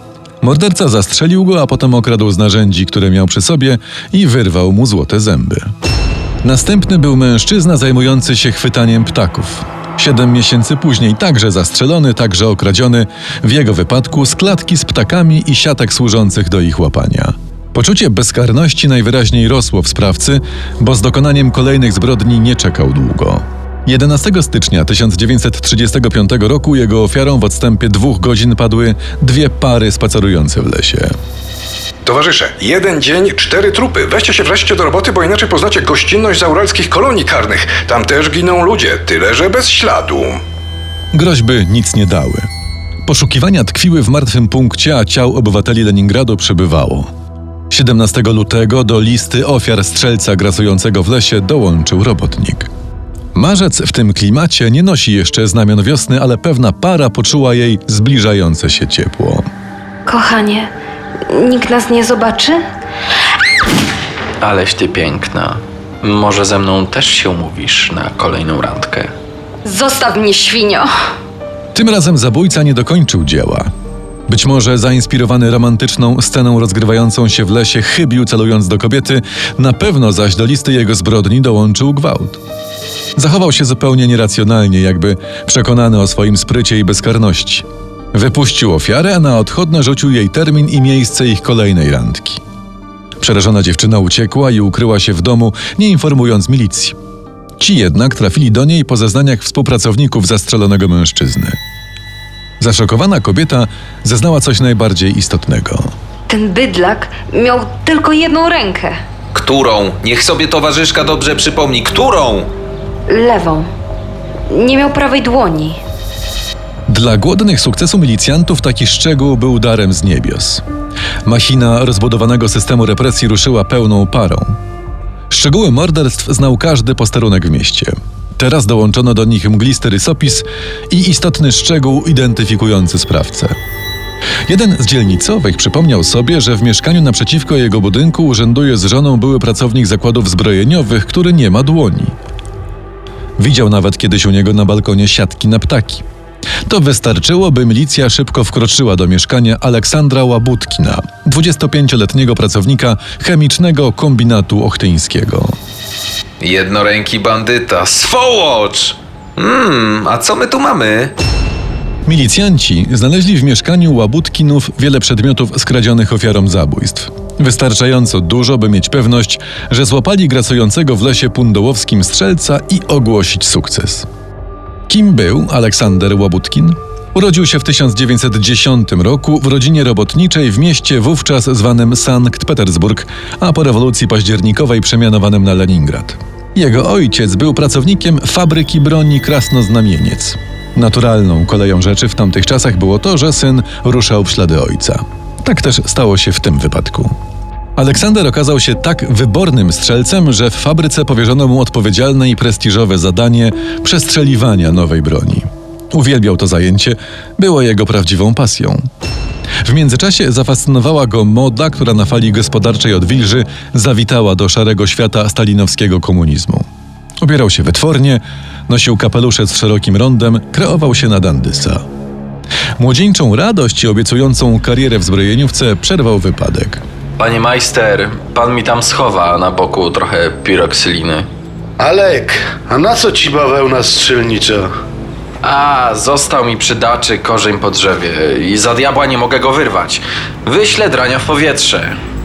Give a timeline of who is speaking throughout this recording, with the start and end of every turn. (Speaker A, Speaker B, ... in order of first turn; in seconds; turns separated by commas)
Speaker A: 0.4-5.7, Speaker A: 6.4-31.1, Speaker B: 32.0-40.4, Speaker A: 41.1-42.5, Speaker A: 43.0-47.1, Speaker A: 47.7-52.7, Speaker A: 53.3-59.4, Speaker C: 60.1-60.7, Speaker C: 61.3-62.6, Speaker D: 64.4-69.1, Speaker C: 69.6-70.8, Speaker A: 71.7-73.7, Speaker A: 74.3-82.4, Speaker A: 83.2-92.4, Speaker A: 93.2-97.0, Speaker A: 97.6-101.6, Speaker A: 102.6-105.9, Speaker C: 106.3-109.0, Speaker E: 109.3-112.5, Speaker C: 113.1-113.7, Speaker C: 114.5-115.8, Speaker A: 116.9-120.6, Speaker A: 121.2-124.6, Speaker A: 125.3-133.6, Speaker A: 134.5-142.1, Speaker A: 143.4-146.0, Speaker A: 146.7-155.5, Speaker E: 156.4-161.1, Speaker A: 162.1-174.1, Speaker A: 174.9-197.1, Speaker A: 197.8-208.8, Speaker A: 209.6-216.6, Speaker A: 217.2-221.8, Speaker A: 222.8-226.8, Speaker D: 227.2-231.3, Speaker F: 231.8-234.7, Speaker D: 235.4-242.0